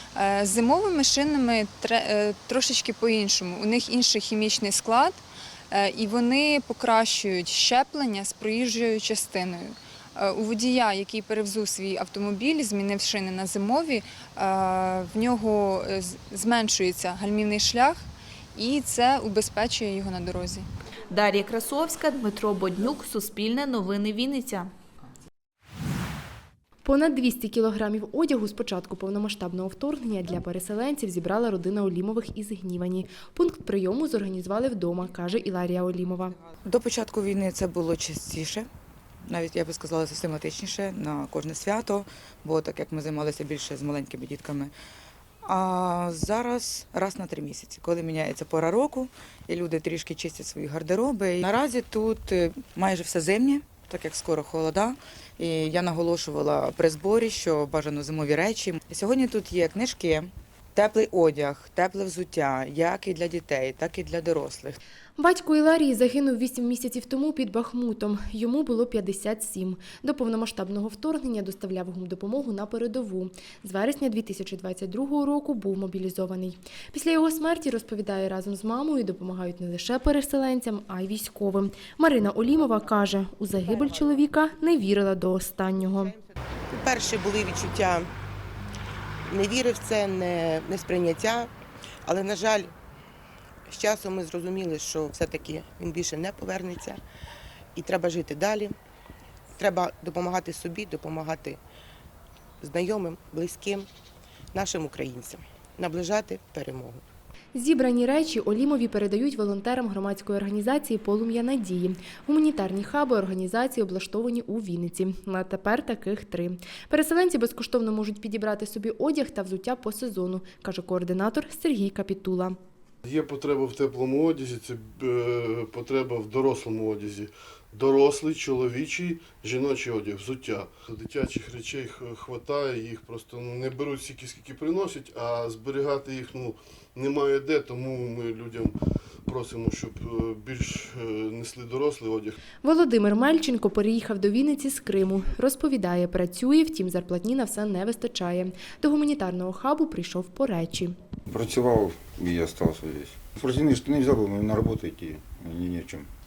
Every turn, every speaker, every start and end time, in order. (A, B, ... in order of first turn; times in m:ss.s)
0:00.2-0:20.7 A
0:21.1-0:24.7 B
0:26.9-0:36.3 C
0:36.6-0:38.7 D
0:39.2-0:44.7 D
0:45.4-1:04.8 D
1:05.2-1:26.0 C
1:22.6-1:23.0 E
1:23.6-1:24.6 E
1:25.7-1:28.1 E
1:29.3-1:31.5 E
1:32.1-1:32.7 E
1:33.7-1:37.0 E
1:37.8-1:38.8 E
1:39.6-1:41.6 E
1:42.6-1:43.9 E
1:44.5-1:47.0 E
1:47.6-2:02.5 C
2:03.0-2:18.7 F
2:19.3-2:22.4 F
2:22.6-2:30.9 C
2:31.3-2:36.1 G